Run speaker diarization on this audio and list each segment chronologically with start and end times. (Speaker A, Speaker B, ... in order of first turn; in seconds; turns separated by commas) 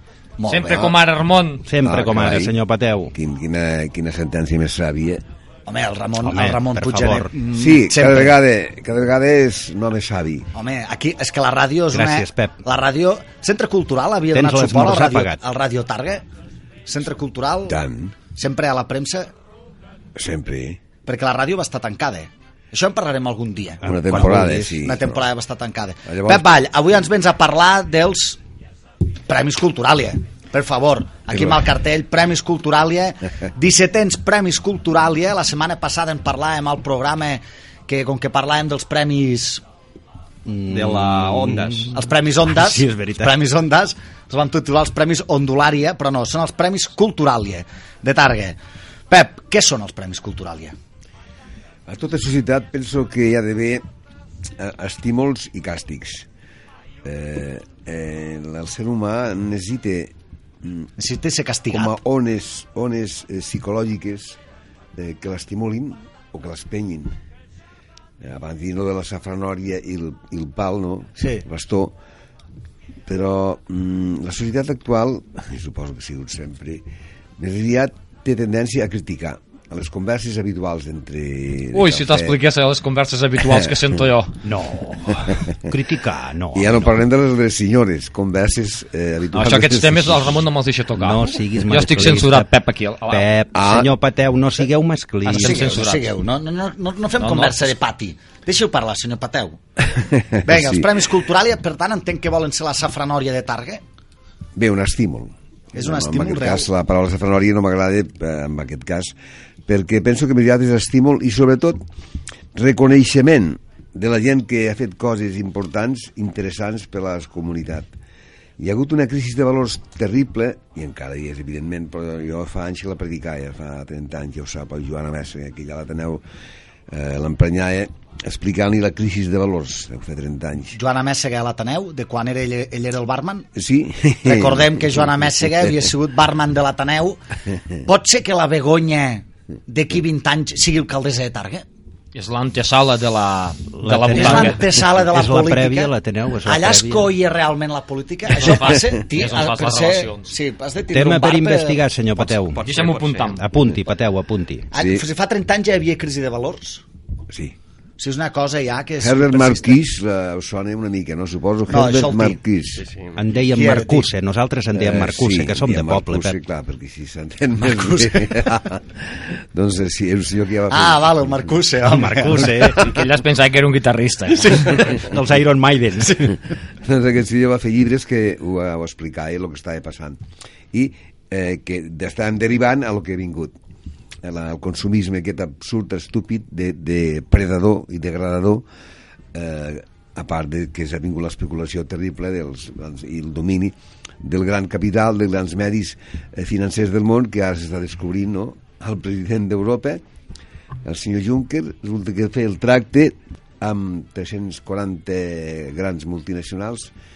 Speaker A: 0.4-0.8, Speaker B: 0.5-1.6, Speaker C: 1.6-3.1, Speaker D: 1.8-2.5, Speaker D: 3.1-5.2, Speaker A: 5.7-8.4, Speaker C: 6.2-7.3, Speaker D: 7.5-10.5, Speaker A: 10.5-16.2, Speaker C: 11.9-12.6, Speaker C: 14.3-15.4, Speaker A: 16.9-17.8, Speaker D: 17.6-18.1, Speaker A: 18.3-19.3, Speaker D: 20.1-20.8, Speaker A: 21.1-23.9, Speaker D: 23.8-25.3, Speaker C: 23.8-24.8, Speaker A: 24.8-28.4, Speaker D: 26.1-26.5, Speaker A: 29.3-39.6, Speaker C: 40.5-43.3, Speaker E: 40.7-41.9, Speaker A: 41.9-48.6, Speaker A: 49.1-50.7, Speaker D: 51.9-53.8, Speaker D: 54.6-56.3, Speaker D: 57.0-60.9, Speaker A: 61.0-62.0, Speaker D: 61.7-64.4, Speaker D: 65.0-67.2, Speaker D: 68.2-71.9, Speaker A: 71.2-71.4, Speaker D: 73.0-76.8, Speaker D: 77.4-82.4, Speaker B: 81.7-84.4, Speaker D: 83.4-84.0, Speaker C: 84.4-86.9, Speaker D: 86.5-90.4, Speaker B: 89.3-93.3, Speaker C: 91.0-92.5, Speaker C: 93.1-95.7, Speaker D: 93.5-93.9, Speaker B: 95.2-96.1, Speaker A: 95.3-99.6, Speaker B: 97.2-97.7, Speaker D: 99.8-101.0, Speaker A: 100.4-103.8, Speaker D: 104.5-109.1, Speaker A: 105.7-106.7, Speaker D: 109.7-111.8, Speaker D: 112.5-117.9, Speaker D: 118.6-126.2, Speaker D: 126.9-130.8, Speaker A: 130.7-133.5, Speaker D: 133.5-135.9, Speaker A: 134.2-137.2, Speaker A: 137.8-141.6, Speaker B: 142.1-144.6, Speaker C: 143.8-147.1, Speaker A: 144.1-145.9, Speaker A: 146.4-152.3, Speaker B: 148.3-150.3, Speaker C: 150.9-152.7, Speaker E: 152.5-153.4, Speaker B: 152.6-153.4, Speaker C: 153.3-154.7, Speaker A: 154.7-156.8, Speaker D: 154.7-155.1, Speaker D: 157.3-157.6, Speaker A: 158.0-159.8, Speaker D: 159.0-162.9, Speaker A: 161.7-162.4, Speaker E: 162.8-163.3, Speaker C: 163.2-166.4, Speaker A: 163.5-164.1, Speaker D: 164.7-171.6, Speaker A: 167.7-168.3, Speaker A: 170.7-172.7, Speaker C: 171.8-172.9, Speaker B: 172.7-174.8, Speaker A: 174.4-174.9, Speaker C: 174.9-176.3, Speaker D: 176.8-180.2, Speaker D: 180.7-183.5, Speaker D: 184.2-188.6, Speaker D: 189.3-200.0, Speaker D: 200.8-206.9